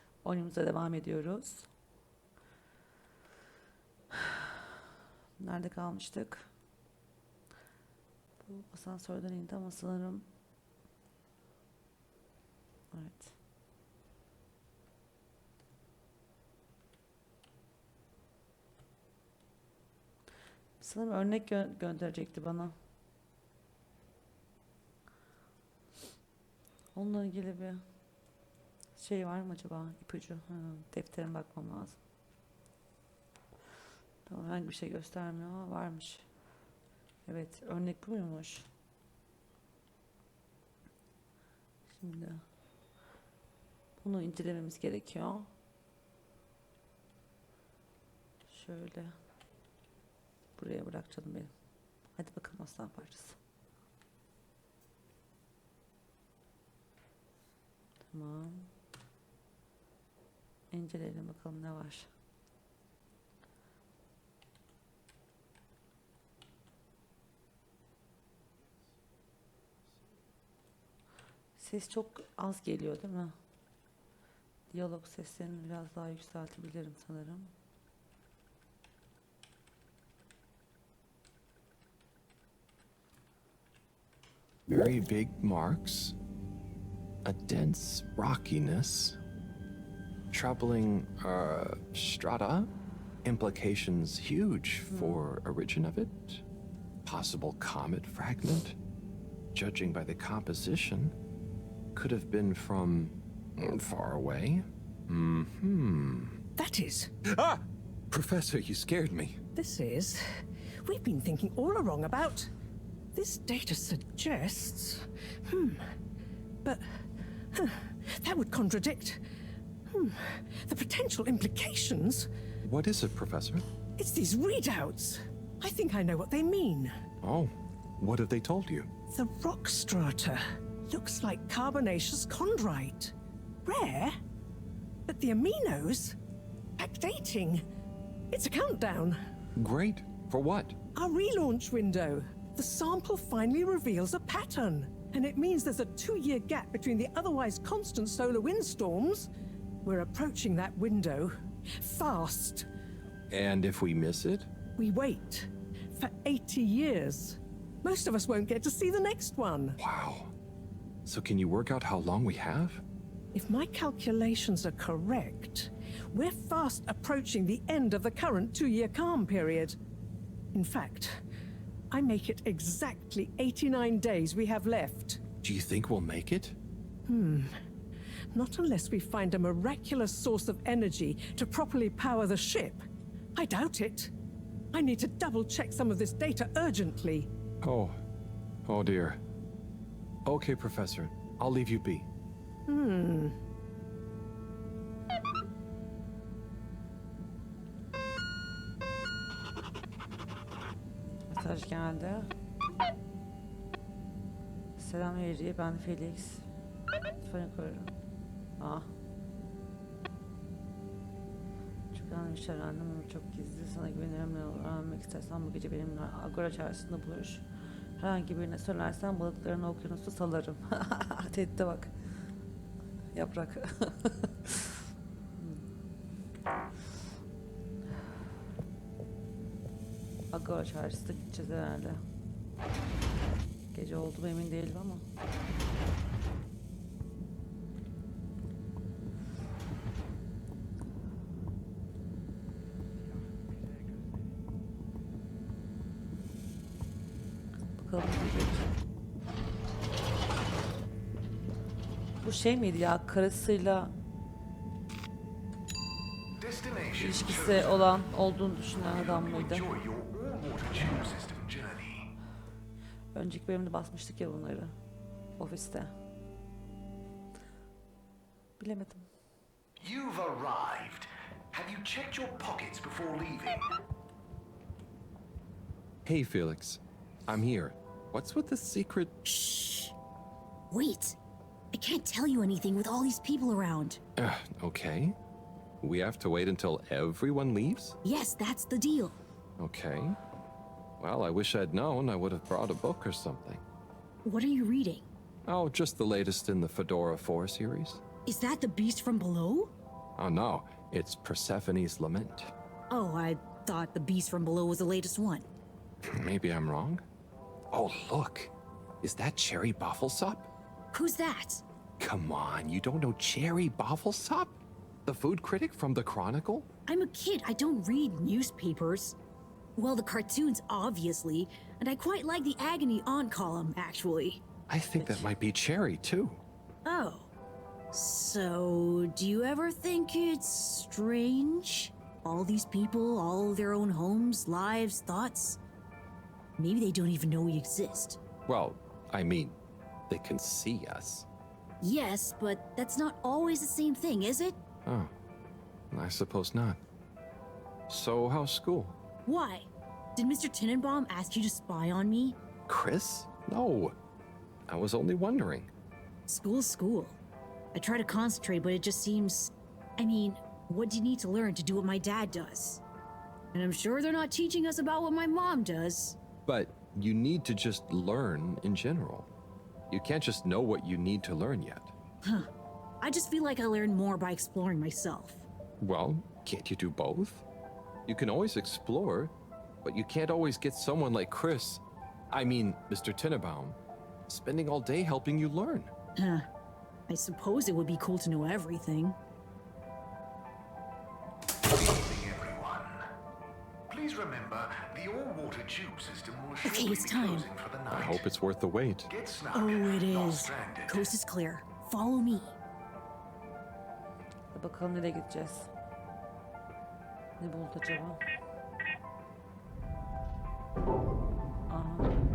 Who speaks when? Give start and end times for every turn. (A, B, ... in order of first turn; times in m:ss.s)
0:00.2-0:01.7 A
0:04.2-0:04.5 A
0:05.4-0:06.5 A
0:08.4-0:10.3 A
0:12.9-0:13.3 A
0:20.8-0:22.7 A
0:27.0-0:27.8 A
0:29.0-0:32.0 A
0:34.3-0:36.3 A
0:37.3-0:38.7 A
0:41.9-0:42.4 A
0:44.0-0:45.5 A
0:48.5-0:49.2 A
0:50.6-0:51.5 A
0:52.2-0:53.4 A
0:58.1-0:58.7 A
1:00.7-1:02.1 A
1:11.6-1:13.3 A
1:14.7-1:17.5 A
1:24.7-1:26.2 B
1:27.2-1:29.2 B
1:30.3-1:32.7 B
1:33.2-1:36.4 B
1:34.9-1:35.2 A
1:37.0-1:38.8 B
1:39.5-1:41.1 B
1:41.9-1:46.4 B
1:46.6-1:47.1 C
1:47.2-1:49.4 B
1:49.6-1:52.5 C
1:53.1-1:55.8 C
1:57.5-1:59.2 C
1:59.9-2:02.3 C
2:02.6-2:03.7 B
2:04.0-2:06.9 C
2:07.2-2:08.9 B
2:09.1-2:13.1 C
2:13.6-2:14.2 C
2:15.1-2:16.2 C
2:16.8-2:17.6 C
2:18.3-2:19.2 C
2:19.6-2:20.8 B
2:20.9-2:29.3 C
2:29.8-2:32.7 C
2:33.3-2:34.5 B
2:34.8-2:39.8 C
2:39.8-2:40.3 B
2:41.1-2:42.8 B
2:43.3-2:49.8 C
2:50.5-2:51.2 C
2:51.9-2:55.2 C
2:55.4-2:56.6 B
2:57.1-2:57.6 C
2:58.3-3:02.8 C
3:03.4-3:04.1 C
3:04.7-3:07.3 C
3:07.6-3:08.0 B
3:08.6-3:09.2 B
3:10.2-3:12.1 B
3:12.7-3:13.4 C
3:21.3-3:22.3 A
3:24.8-3:26.5 A
3:27.2-3:27.9 A
3:28.6-3:28.9 A
3:31.9-3:37.5 A
3:38.0-3:41.9 A
3:43.1-3:44.8 A
3:45.4-3:45.7 A
3:50.3-3:52.0 A
3:53.7-3:55.0 A
4:07.8-4:08.7 A
4:12.2-4:13.9 A
4:16.4-4:17.6 D
4:16.9-4:19.8 A
4:19.1-4:22.1 D
4:23.1-4:24.8 A
4:25.4-4:25.9 A
4:28.6-4:29.1 A
4:29.8-4:33.7 D
4:36.0-4:39.1 B
4:39.2-4:39.9 E
4:40.7-4:41.2 E
4:41.7-4:44.0 E
4:44.2-4:45.2 B
4:45.8-4:48.0 B
4:48.0-4:49.2 E
4:49.6-4:50.2 B
4:51.0-4:53.6 B
4:54.2-4:55.1 E
4:55.4-4:58.0 B
4:58.2-4:59.7 E
5:00.2-5:02.5 B
5:02.9-5:05.4 E
5:06.0-5:07.0 B
5:07.7-5:10.5 B
5:10.9-5:11.6 E
5:12.0-5:16.7 B
5:16.9-5:19.2 E
5:19.8-5:24.4 E
5:24.7-5:26.4 B
5:25.0-5:25.3 E
5:26.8-5:27.3 E
5:27.9-5:35.6 E
5:36.6-5:38.2 E
5:38.5-5:39.6 B
5:40.1-5:41.3 B
5:41.8-5:44.6 E
5:44.9-5:45.1 B
5:45.9-5:46.8 B
5:47.9-5:49.0 B
5:49.2-5:52.4 E
5:52.7-5:54.0 B
5:54.7-5:55.7 B
5:56.3-5:57.2 E
5:57.7-6:02.8 E
6:03.5-6:06.2 E
6:06.4-6:09.3 B
6:09.9-6:11.9 B
6:12.2-6:12.5 E
6:13.0-6:15.5 E
6:15.8-6:17.4 B
6:18.1-6:25.9 B
6:26.2-6:26.5 E
6:27.1-6:29.2 E
6:31.8-6:33.0 D
6:33.9-6:38.1 D
6:36.6-6:37.5 E
6:37.9-6:39.1 B
6:39.1-6:41.1 D
6:39.5-6:42.6 E
6:44.5-6:45.7 A
6:47.4-6:48.2 A
6:51.7-6:52.1 A